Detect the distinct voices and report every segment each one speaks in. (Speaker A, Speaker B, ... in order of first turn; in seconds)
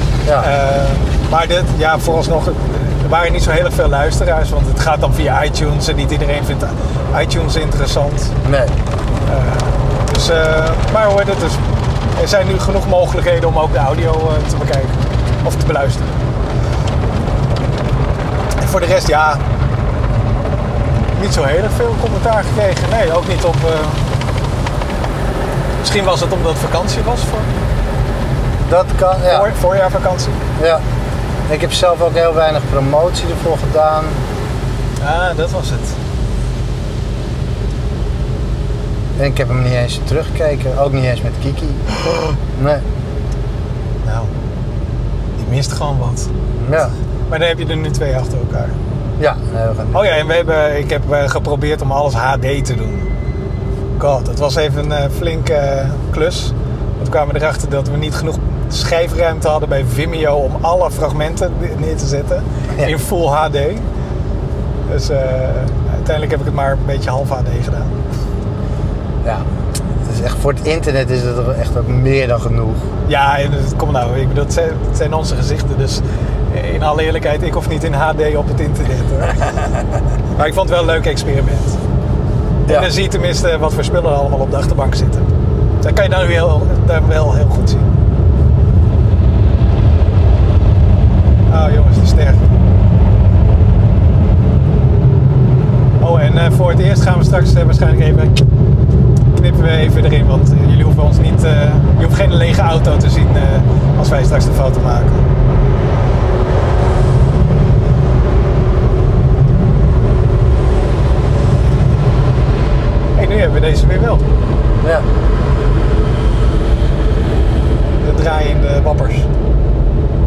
Speaker A: 0.4-8.3, 9.3-11.6, 12.1-16.1, 18.6-19.4, 21.1-24.1, 25.8-27.5, 29.2-30.4, 35.0-35.9, 44.0-44.3, 45.4-46.3, 47.3-48.8, 49.9-53.1, 54.0-63.8, 64.9-67.9, 73.0-79.7, 80.3-81.8, 82.6-85.3, 85.8-87.9, 91.5-92.4, 96.0-98.4, 99.3-105.2, 113.2-114.2, 118.0-119.3
Speaker B: 8.4-8.7, 28.7-29.5, 30.6-30.8, 31.5-34.2, 39.1-41.9, 42.4-42.8, 46.6-46.9, 49.2-50.2, 70.0-72.8